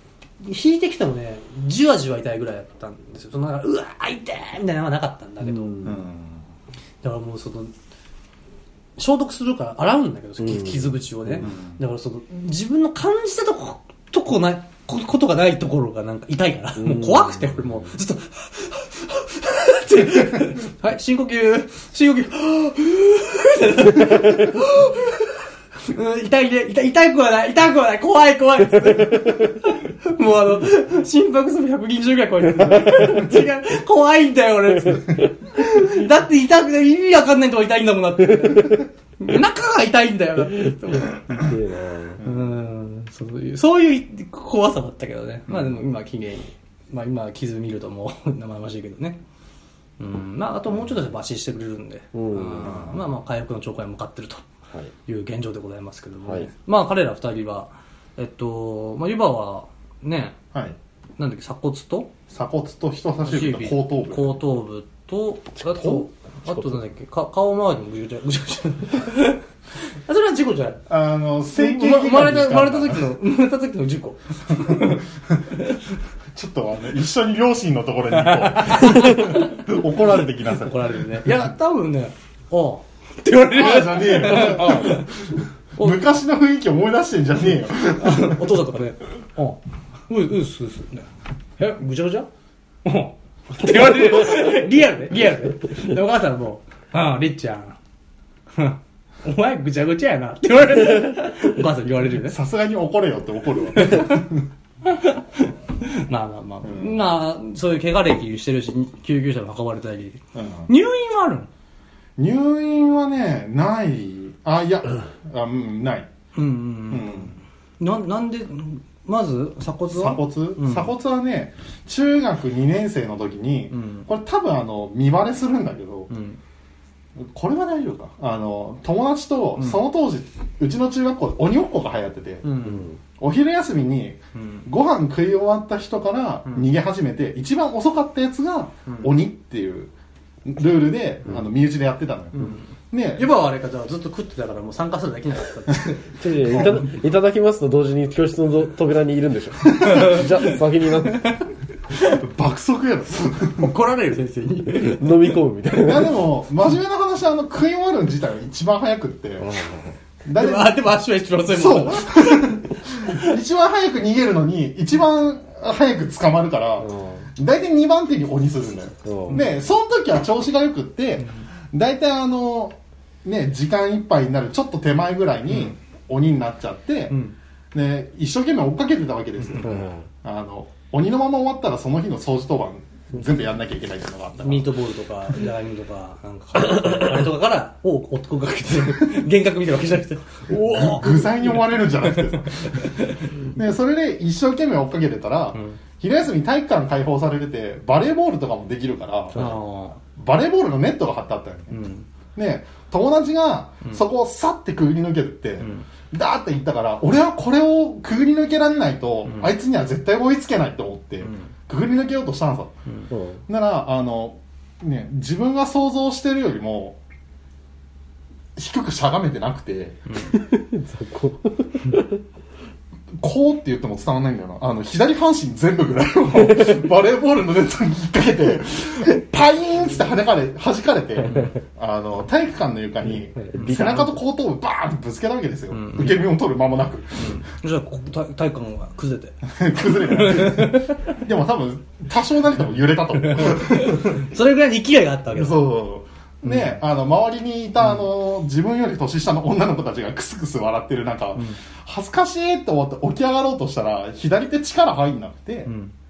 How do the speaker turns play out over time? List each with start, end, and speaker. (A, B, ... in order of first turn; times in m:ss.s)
0:00.4-0:05.9 A
0:05.4-0:06.0 B
0:05.8-0:06.4 C
0:07.0-0:07.7 A
0:09.0-0:41.2 A
0:10.4-0:11.5 B
0:11.4-0:11.8 C
0:16.8-0:17.6 B
0:40.9-0:42.2 B
0:42.2-0:42.4 C
0:42.2-0:49.2 A
0:45.5-0:45.8 C
0:50.0-0:54.4 A
0:52.1-0:52.8 B
0:52.7-0:52.9 C
0:55.0-1:00.4 A
1:01.2-1:02.1 A
1:02.3-1:04.4 C
1:03.2-1:09.4 A
1:05.7-1:06.8 B
1:10.0-1:10.8 A
1:10.9-1:13.0 C
1:11.5-1:15.0 A
1:16.3-1:21.3 C
1:18.2-1:19.6 A
1:20.5-1:25.1 A
1:23.5-1:28.5 C
1:25.8-1:26.0 A
1:27.9-1:32.3 A
1:32.8-1:37.8 A
1:38.5-1:42.4 A
1:42.2-1:44.5 C
1:43.8-1:44.2 A
1:44.8-1:51.5 A
1:46.6-1:47.0 C
1:50.3-1:50.7 C
1:52.2-1:56.1 C
1:56.3-2:00.9 A
1:56.9-1:57.3 C
1:59.9-2:06.1 C
2:03.7-2:04.1 A
2:06.1-2:06.4 A
2:07.2-2:12.6 C
2:12.4-2:12.9 A
2:13.2-2:19.9 C
2:14.4-2:14.6 A
2:20.4-2:23.3 C
2:22.3-2:26.9 A
2:26.2-2:31.3 B
2:29.7-2:30.1 C
2:29.8-2:30.5 A
2:31.0-2:32.2 A
2:32.0-2:33.7 C
2:33.4-2:35.4 A
2:34.8-2:36.2 B
2:35.8-2:39.5 C
2:39.4-2:40.0 B
2:40.2-2:40.8 C
2:40.3-2:43.2 A
2:41.5-2:57.2 C
2:46.8-2:47.2 B
2:49.0-2:49.4 B
2:57.1-2:57.3 A
2:57.7-3:04.7 C
2:59.6-3:00.0 B
3:04.4-3:13.3 A
3:10.5-3:12.9 C
3:13.5-3:19.5 C
3:19.3-3:20.0 A
3:20.0-3:21.8 C
3:21.7-3:22.0 A
3:22.4-3:32.8 C
3:25.6-3:25.8 A
3:29.2-3:29.5 A
3:31.2-3:31.5 A
3:33.1-3:33.4 B
3:33.5-3:37.0 C
3:38.6-3:40.1 C
3:40.3-3:42.2 B
3:43.2-3:57.4 C
3:51.3-3:51.5 A
3:53.4-3:54.1 B
3:55.7-3:56.2 A
3:57.2-4:01.1 A
3:59.4-4:04.2 C
4:03.2-4:05.6 A
4:05.3-4:15.7 C
4:15.6-4:15.9 A